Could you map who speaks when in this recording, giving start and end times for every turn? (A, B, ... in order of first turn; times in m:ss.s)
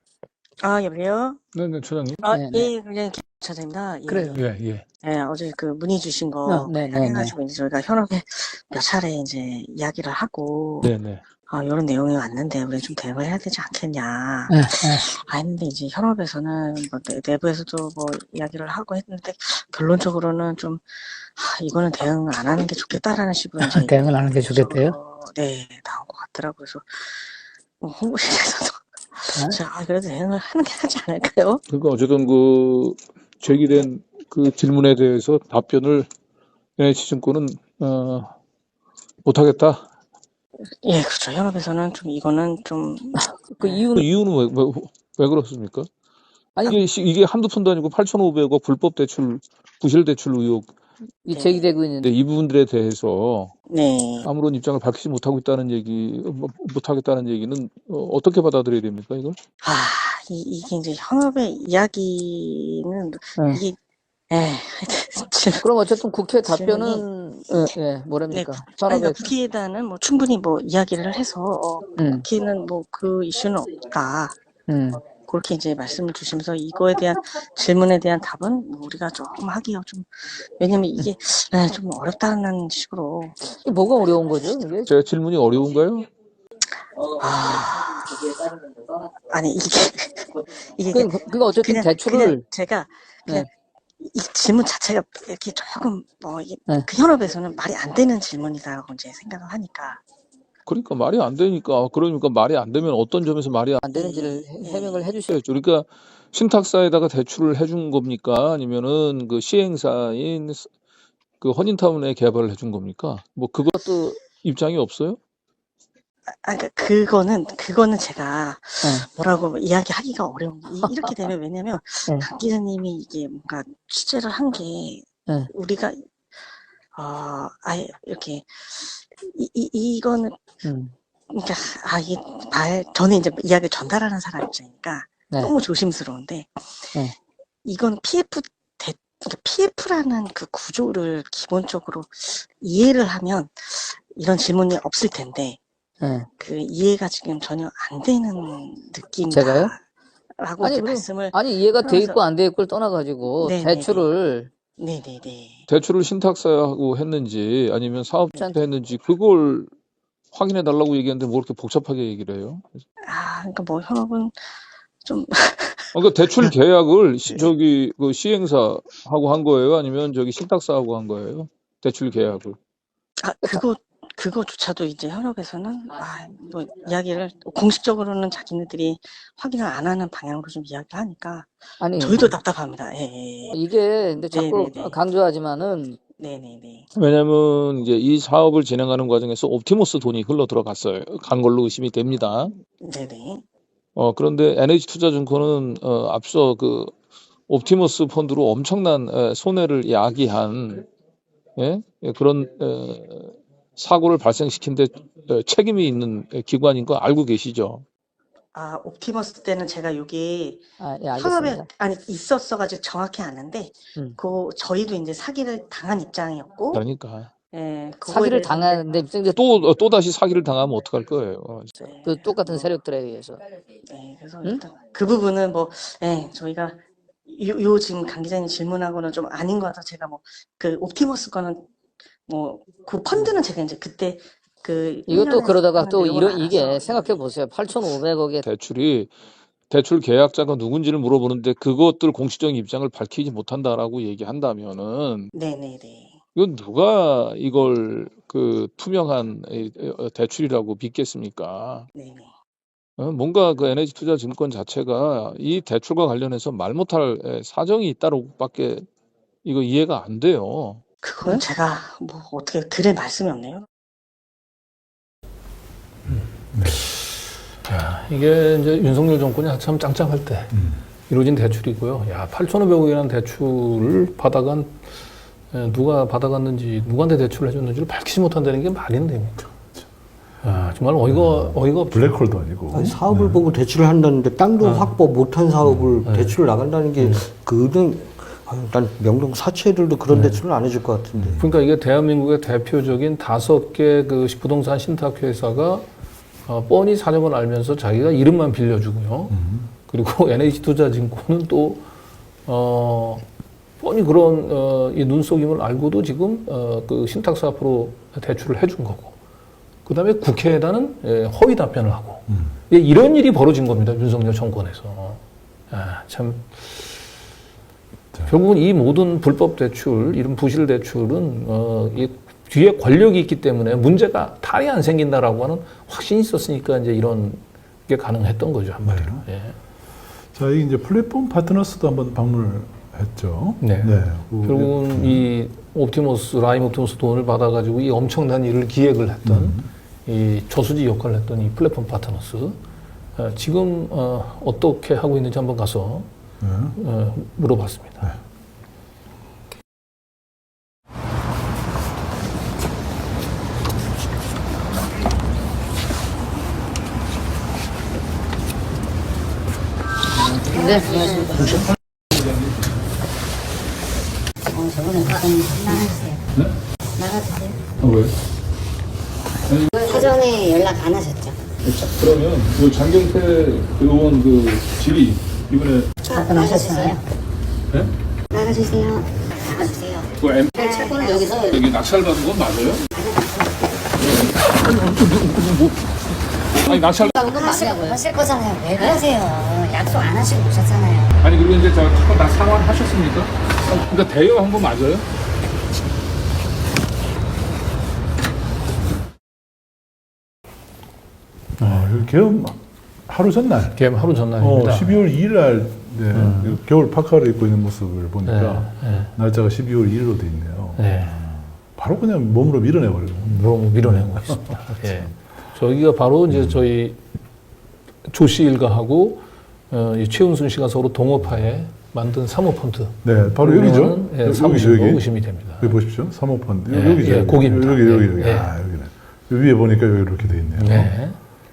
0:00.6-0:01.4 A
0:01.5-0:02.2 B
0:02.2-0:04.4 A
0:02.2-0:02.7 C
0:04.1-0:04.4 C
0:04.3-0:04.8 B
0:05.0-0:10.9 A
0:06.4-0:07.3 C
0:10.8-0:11.2 B
0:11.5-0:31.6 A
0:14.5-0:15.0 C
0:23.6-0:25.0 C
0:31.7-0:36.1 B
0:36.8-0:38.3 B
0:39.2-0:39.9 B
0:40.8-0:43.8 A
0:43.2-0:44.0 C
0:43.9-0:45.9 B
0:46.6-0:50.7 B
0:51.2-0:52.1 C
0:51.3-0:51.6 A
0:52.0-0:53.5 B
0:53.7-0:54.3 A
0:54.2-0:59.4 B
0:59.6-1:03.8 A
1:03.4-1:03.6 C
1:04.3-1:05.7 A
1:05.6-1:09.3 C
1:06.4-1:07.0 A
1:08.3-1:14.4 A
1:12.0-1:12.2 C
1:14.7-1:15.0 C
1:15.1-1:23.4 A
1:23.5-1:24.9 C
1:24.9-1:26.1 B
1:27.1-1:28.0 A
1:29.3-1:33.5 A
1:30.9-1:32.4 C
1:34.0-1:40.0 A
1:40.6-1:43.8 B
1:43.8-1:45.4 C
1:43.9-1:45.1 A
1:45.3-1:50.7 B
1:51.4-1:55.2 B
1:53.8-1:54.1 C
1:56.3-2:06.4 A
1:58.8-1:59.1 C
2:00.8-2:01.1 C
2:06.9-2:10.4 A
2:10.6-2:10.9 C
2:11.3-2:16.9 A
2:17.6-2:25.6 A
2:26.0-2:26.3 C
2:26.4-2:29.8 A
2:29.3-2:29.7 C
2:30.4-2:32.2 A
2:30.6-2:34.5 C
2:33.4-2:34.1 A
2:34.8-2:35.6 A
2:35.7-2:39.7 B
2:40.3-2:42.8 B
2:43.1-2:44.5 A
2:45.0-2:45.9 A
2:45.9-2:52.6 B
2:53.2-3:03.6 A
3:01.8-3:02.3 C
3:03.5-3:06.0 C
3:04.3-3:05.0 A
3:06.2-3:06.9 A
3:06.9-3:12.5 B
3:12.8-3:13.4 A
3:14.0-3:16.9 B
3:17.5-3:20.8 B
3:21.6-3:27.8 B
3:28.5-3:30.6 A
3:30.8-3:31.7 C
3:31.2-3:36.8 A
3:36.7-3:37.3 B
3:37.5-3:39.0 A
3:38.0-3:39.4 C
3:39.3-3:41.7 B
3:41.8-3:42.7 A
3:42.0-3:43.4 C
3:43.8-3:51.7 A
3:52.3-3:57.2 A
3:55.1-3:58.4 C
3:58.4-3:59.1 B
3:59.7-4:05.3 B
4:05.3-4:06.2 A
4:06.3-4:11.9 B
4:11.9-4:12.3 A
4:13.0-4:18.8 B
4:19.4-4:20.8 B
4:21.0-4:23.6 A
4:26.1-4:26.8 D
4:26.1-4:27.0 E
4:27.6-4:30.6 E
4:30.5-4:30.8 D
4:31.1-4:35.0 E
4:35.5-4:39.5 E
4:40.4-4:42.3 E
4:41.1-4:43.4 D
4:42.7-4:51.4 F
4:44.6-4:44.9 E
4:46.0-4:46.3 E
4:47.0-4:47.2 E
4:50.1-4:50.4 E
4:51.2-4:51.4 D
4:51.4-4:55.8 E
4:56.4-5:01.8 E
4:59.3-4:59.7 D
5:02.4-5:03.2 E
5:03.8-5:09.2 E
5:09.8-5:17.0 E
5:12.3-5:12.5 D
5:18.3-5:29.6 E
5:28.8-5:29.2 D
5:30.3-5:35.3 D
5:33.6-5:42.6 E
5:39.2-5:39.7 D
5:43.2-5:46.1 E
5:46.4-5:46.7 D
5:46.7-5:48.1 E
6:00.5-6:01.5 C
6:00.5-6:01.5 G
6:01.3-6:02.5 B
6:04.5-6:06.2 G
6:07.0-6:07.6 G
6:07.8-6:08.1 B
6:09.5-6:09.9 B
6:09.7-6:11.4 G
6:11.6-6:15.9 B
6:16.0-6:17.0 G
6:18.3-6:21.6 G
6:20.2-6:20.7 B
6:21.5-6:22.8 B
6:22.9-6:23.7 G
6:24.0-6:25.8 B
6:26.6-6:27.2 B
6:26.6-6:31.1 G
6:27.2-6:28.0 C
6:31.2-6:35.0 B
6:41.6-6:42.1 E
6:41.6-6:43.8 D
6:43.7-6:45.0 E
6:44.4-6:55.2 D
6:46.1-6:46.6 E
6:48.2-6:49.1 E
6:50.8-6:51.1 E
6:53.2-6:57.0 E
6:56.3-6:56.6 D
6:58.0-7:05.8 E
7:03.0-7:11.1 D
7:06.7-7:08.5 E
7:10.5-7:11.2 E